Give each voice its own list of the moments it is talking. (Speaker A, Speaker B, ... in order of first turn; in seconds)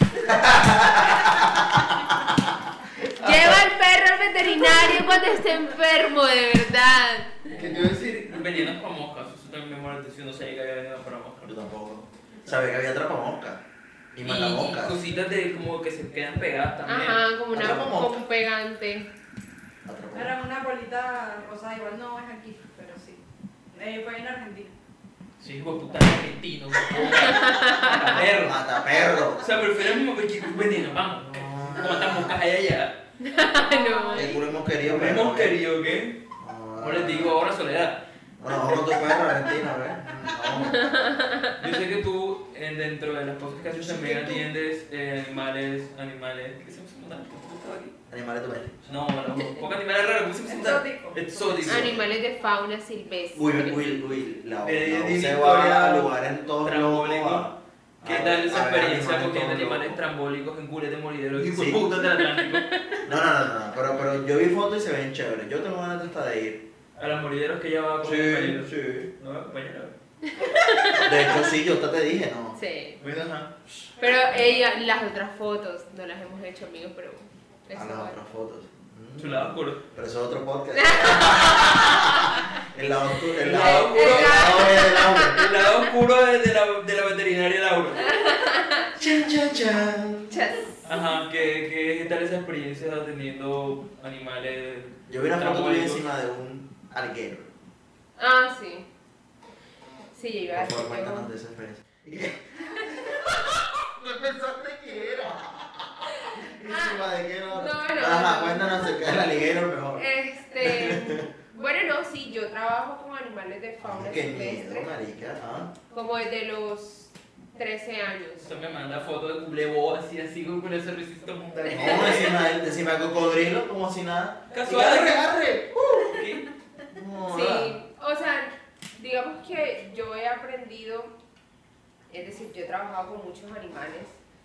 Speaker A: 0.2-3.6, 7.5-8.4, 11.4-13.6, 14.1-15.0, 17.5-18.2, 19.8-20.3, 27.9-29.6, 31.2-32.4, 34.1-35.6, 36.4-37.4, 38.4-41.1, 43.8-44.4, 48.1-48.8, 51.6-52.1, 53.3-60.0, 61.4-62.0, 63.0-66.6, 68.0-69.1, 70.9-74.5, 77.7-85.5, 89.0-90.5, 95.1-97.5, 100.5-110.0, 110.6-111.3, 113.8-115.7, 121.7-126.2, 126.9-127.8
Speaker B: 3.1-7.5, 16.9-19.1, 27.2-27.9, 33.2-34.4, 40.5-41.5, 51.6-54.0, 70.3-71.5, 72.5-73.0, 74.0-78.2, 80.7-82.5, 83.5-85.5, 88.0-88.9, 90.3-90.8, 98.2-98.9, 100.1-101.3, 106.2-109.2, 109.9-114.9, 115.9-118.5, 121.7-122.1, 127.3-131.1, 132.1-134.2
Speaker C: 7.6-11.5, 14.2-17.2, 25.4-28.6, 29.4-32.9, 34.8-36.2, 36.8-38.0, 41.6-47.9, 48.8-52.0, 54.6-57.5, 58.0-62.7, 67.0-69.9, 79.2-79.8, 83.2-88.2, 90.8-96.0, 118.4-122.4, 124.5-126.5
Speaker D: 20.1-23.2, 23.7-24.7, 33.6-34.4, 50.5-51.6